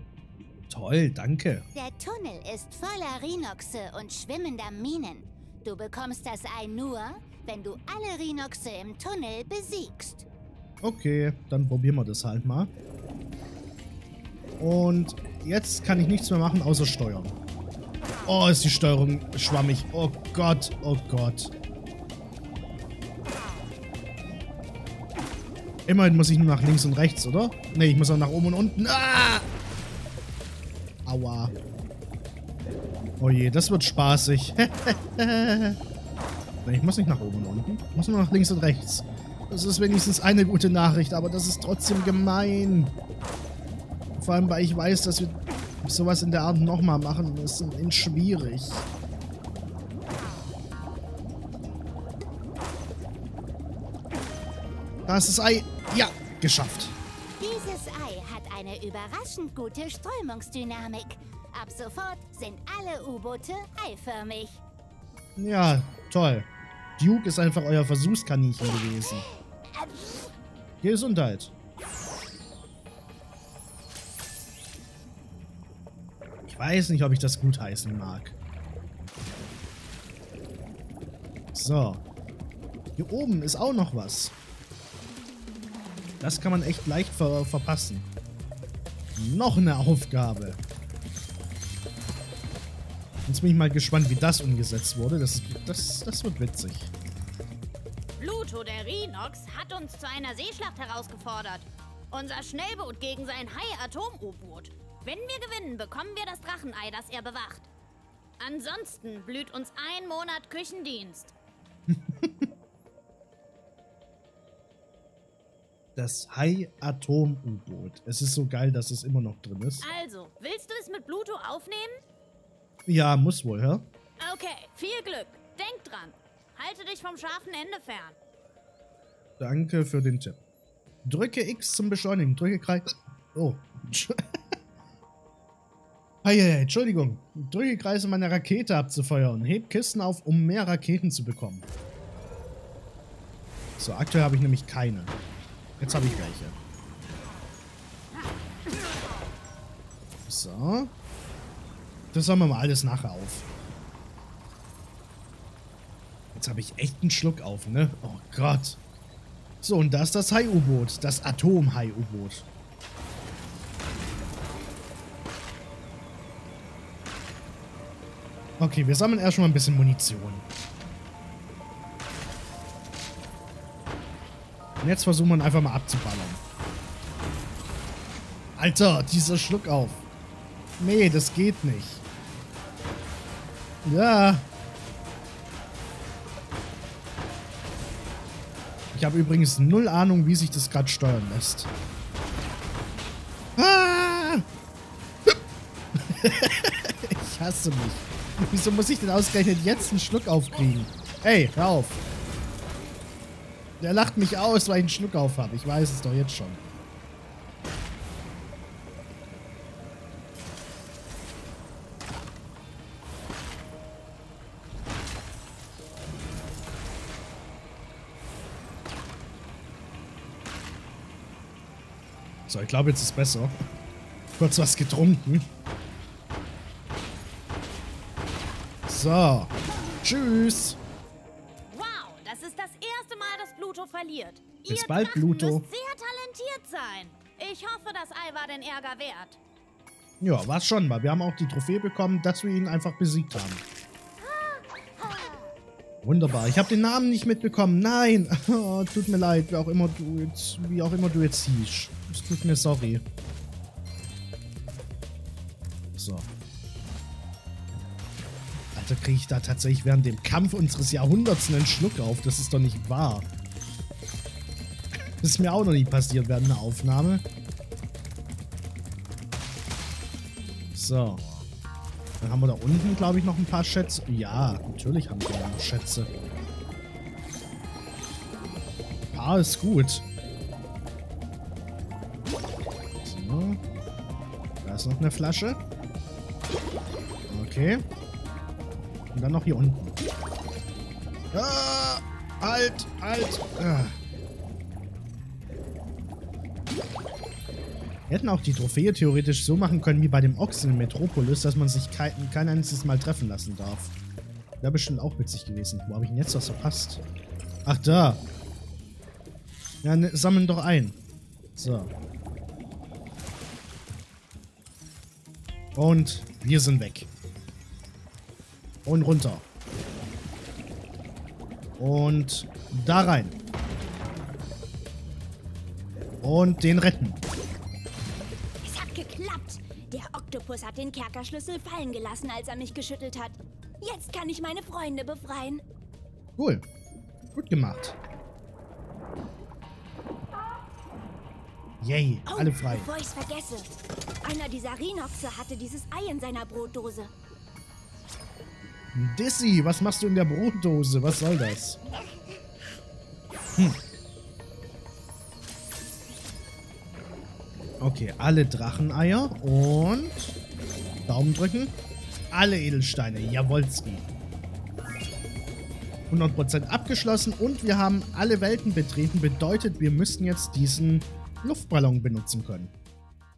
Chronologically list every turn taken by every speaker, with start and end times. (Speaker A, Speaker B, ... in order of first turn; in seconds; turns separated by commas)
Speaker A: 0.7-1.7, Speaker B: 1.7-10.2, Speaker A: 10.8-12.7, Speaker A: 14.6-17.3, Speaker A: 18.2-21.5, Speaker A: 25.9-29.4, Speaker A: 31.1-31.5, Speaker A: 33.2-35.8, Speaker A: 36.6-42.9, Speaker A: 44.2-48.8, Speaker A: 55.1-56.9, Speaker B: 57.4-64.6, Speaker A: 65.3-69.2, Speaker A: 70.8-71.5, Speaker A: 76.5-78.3, Speaker A: 81.5-82.0, Speaker A: 83.0-84.3, Speaker A: 86.2-88.1, Speaker A: 89.2-90.6, Speaker A: 93.2-96.9, Speaker C: 98.2-107.7, Speaker C: 108.4-111.3, Speaker A: 111.9-112.5, Speaker A: 116.0-119.9, Speaker C: 119.8-122.0, Speaker A: 122.9-123.8, Speaker C: 124.2-128.2, Speaker A: 129.4-130.4, Speaker A: 131.0-134.2, Speaker A: 136.2-141.7, Speaker A: 143.8-145.1, Speaker A: 145.8-146.6, Speaker A: 150.2-150.9, Speaker A: 152.1-153.5, Speaker A: 156.3-158.8, Speaker A: 159.6-162.4, Speaker A: 168.6-170.4, Speaker A: 174.8-176.4, Speaker A: 178.6-180.0, Speaker A: 180.8-182.0, Speaker A: 183.8-184.4, Speaker A: 188.9-191.7, Speaker A: 193.6-194.4, Speaker A: 195.9-201.9, Speaker A: 203.8-206.6, Speaker A: 222.5-223.5, Speaker A: 224.4-225.5, Speaker A: 228.9-230.8, Speaker C: 231.7-239.4, Speaker A: 234.7-235.7, Speaker A: 240.2-243.6, Speaker A: 246.0-253.0, Speaker A: 255.9-256.3, Speaker A: 258.7-263.3, Speaker A: 265.2-267.2, Speaker A: 270.7-271.2, Speaker A: 272.2-276.1, Speaker A: 279.0-280.0, Speaker A: 283.0-283.6, Speaker A: 284.6-285.6, Speaker A: 287.3-287.9, Speaker A: 289.1-289.9, Speaker A: 291.3-293.9, Speaker A: 298.1-303.9, Speaker A: 304.6-307.0, Speaker A: 307.6-308.2, Speaker A: 309.8-311.0, Speaker A: 311.6-311.9, Speaker A: 315.7-317.1, Speaker A: 318.9-319.4, Speaker A: 321.8-323.4, Speaker A: 326.2-327.2, Speaker D: 328.6-335.6, Speaker A: 336.4-336.6, Speaker A: 337.3-337.9, Speaker A: 341.8-342.9, Speaker D: 342.3-343.7, Speaker D: 344.2-347.1, Speaker A: 348.9-351.8, Speaker A: 357.8-360.3, Speaker A: 361.1-361.7, Speaker A: 362.3-364.1, Speaker A: 366.1-372.7